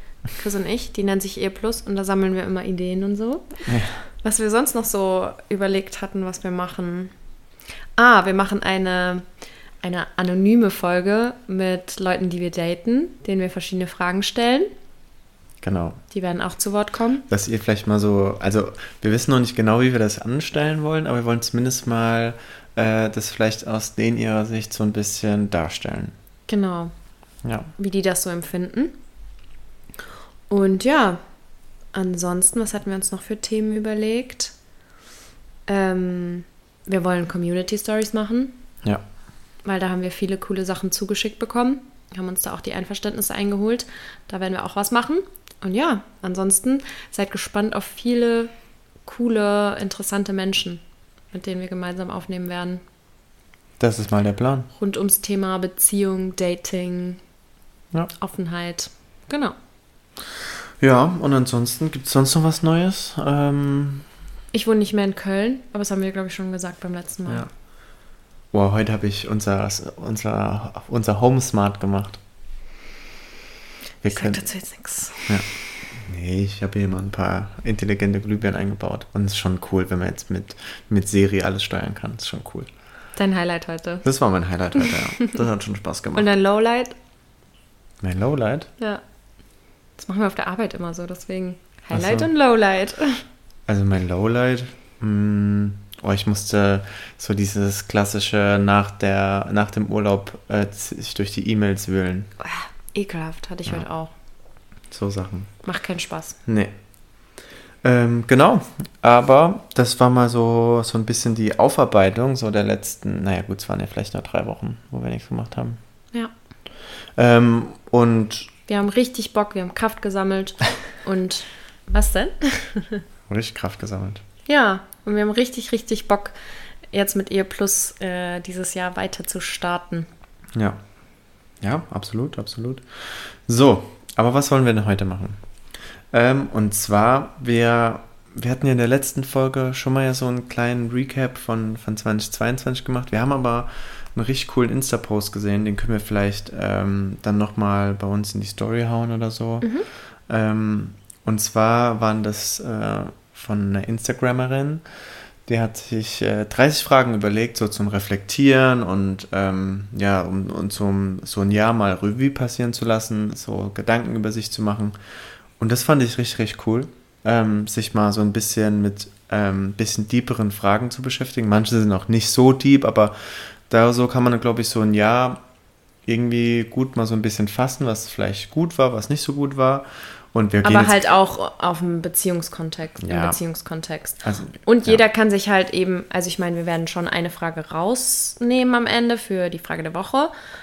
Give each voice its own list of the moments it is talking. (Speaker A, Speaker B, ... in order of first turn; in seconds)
Speaker A: 0.3-7.1, 8.0-9.3, 9.8-14.7, 16.1-17.2, 26.5-26.9, 27.8-29.0, 30.5-31.2, 31.9-34.5, 35.7-38.6, 39.6-48.5, 49.0-52.8, 54.8-57.2, 58.2-59.5, 64.5-67.5, 74.1-75.6, 83.2-84.0, 86.1-87.0, 90.0-93.2, 102.4-104.1, 105.6-106.4, 118.7-123.0, 124.5-126.3, 126.9-130.1, 149.6-149.9, 180.6-190.3
Speaker B: 3.7-4.1, 15.6-16.0, 17.3-26.1, 27.4-27.7, 53.8-54.7, 60.8-64.1, 67.3-67.5, 68.5-72.2, 74.0-74.5, 75.3-82.7, 84.0-86.3, 88.0-88.7, 91.9-92.3, 93.7-102.3, 104.9-105.6, 106.5-106.7, 107.8-115.8, 117.2-118.5, 123.3-124.2, 130.5-130.8, 131.6-135.4, 136.1-154.8, 155.4-165.0, 165.6-175.4, 176.1-181.0, 183.0-183.4, 184.2-185.0